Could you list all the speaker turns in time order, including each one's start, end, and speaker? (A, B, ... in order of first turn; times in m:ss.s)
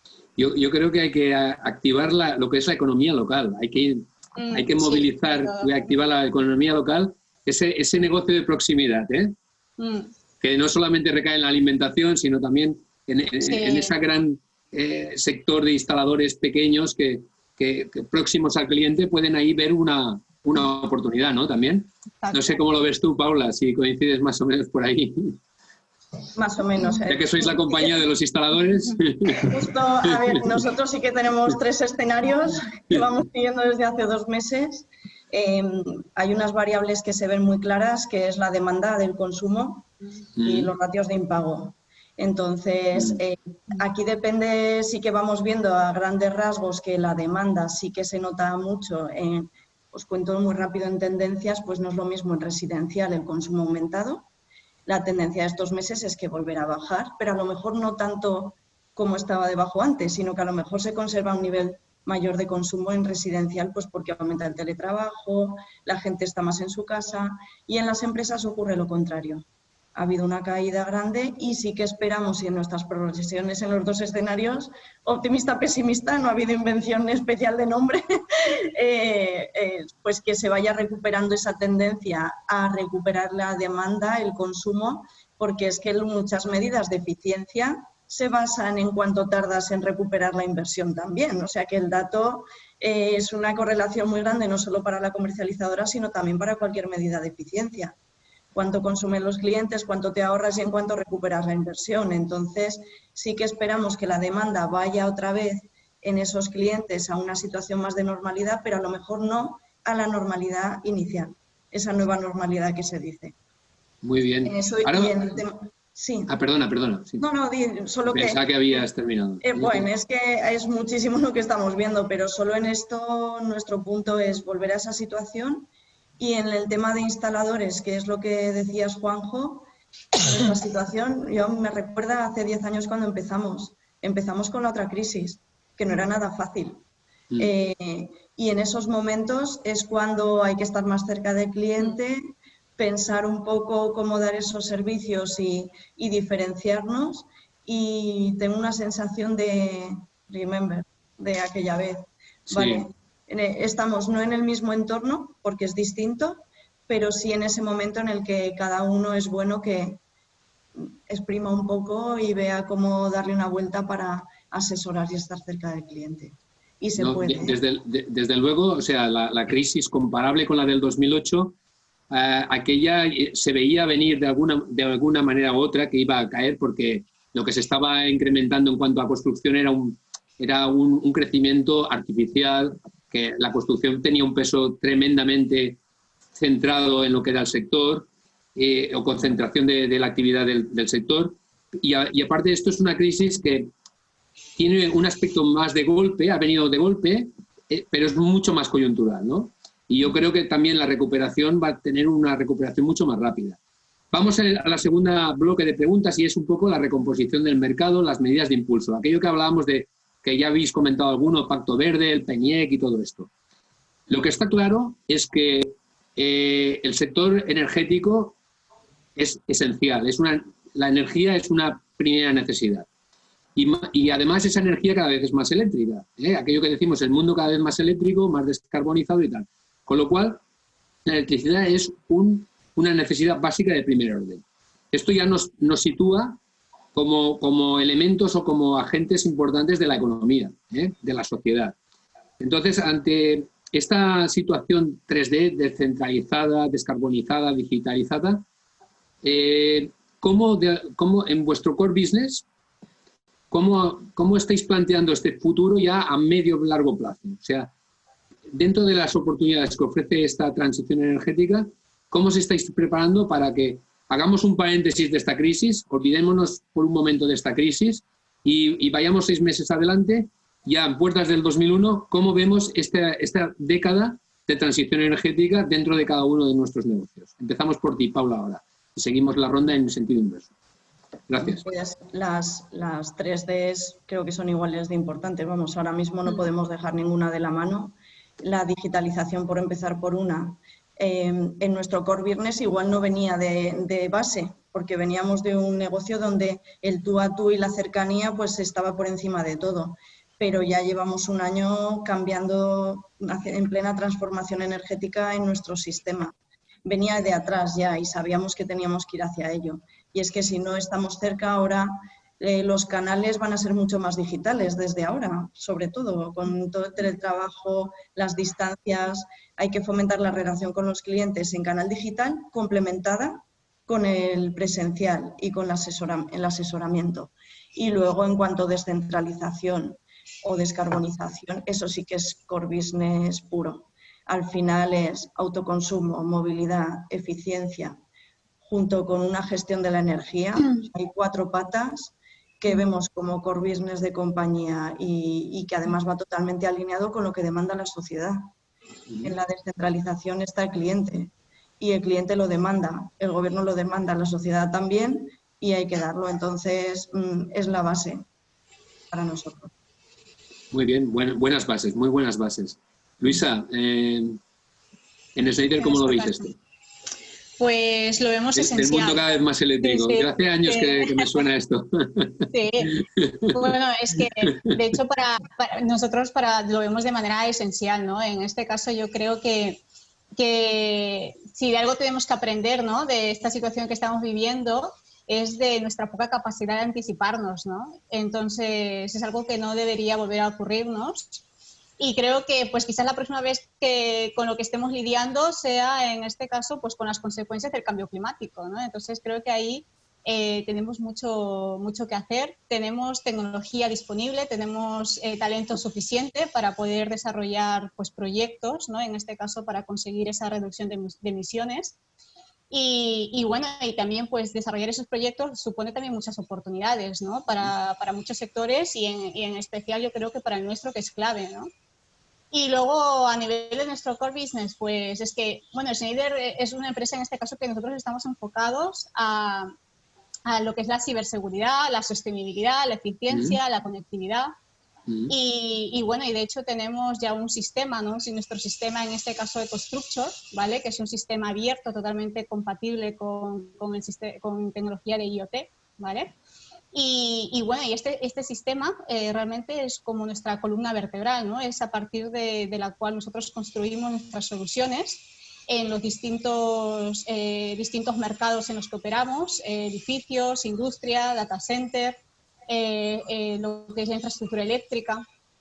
0:00.4-0:09.3 A
0:04.4-0:05.9 B
0:09.8-0:10.1 B
0:10.4-0:25.4 A
0:13.4-0:13.9 B
0:22.2-0:22.6 B
0:26.4-0:27.9 C
0:27.1-0:29.6 A
0:29.4-0:39.9 C
0:40.4-0:40.7 A
0:40.4-0:54.3 C
0:42.9-0:43.2 A
0:54.8-1:38.0 C
1:38.5-1:53.3 C
1:54.0-1:55.4 A
1:54.4-1:56.3 C
1:56.3-1:57.2 A
1:57.2-1:58.8 C
1:58.1-1:59.9 A
1:59.4-2:09.7 C
2:10.2-2:16.8 C
2:17.4-2:22.2 C
2:22.8-2:40.0 C
2:32.5-2:32.9 A
2:40.8-2:47.6 C
2:47.0-2:51.5 A
2:52.1-3:05.8 A
3:06.4-3:13.7 A
3:14.6-3:23.6 A
3:24.1-3:33.3 A
3:34.1-3:38.4 A
3:39.2-3:42.9 A
3:43.6-3:50.4 A
3:51.0-3:56.4 A
3:56.9-4:01.8 A
4:02.4-4:08.4 A
4:09.2-4:12.4 A
4:13.5-4:17.7 A
4:18.5-4:40.5 A
4:41.3-4:41.6 A
4:41.4-5:06.3 C
5:06.8-5:38.0 C
5:38.6-5:48.5 C
5:49.1-5:49.3 A
5:49.2-5:58.2 C
5:59.1-5:59.7 C
6:00.7-6:04.4 A
6:05.4-6:06.5 A
6:05.8-6:06.5 B
6:07.6-6:11.3 B
6:08.6-6:13.6 A
6:12.5-6:13.0 B
6:13.5-6:19.8 B
6:20.4-6:31.4 B
6:32.0-6:52.0 B
6:52.7-7:01.7 B
7:02.5-7:09.7 B
7:10.4-7:14.5 B
7:13.3-7:13.6 A
7:15.1-7:15.3 A
7:15.3-7:26.3 B
7:26.9-7:45.2 B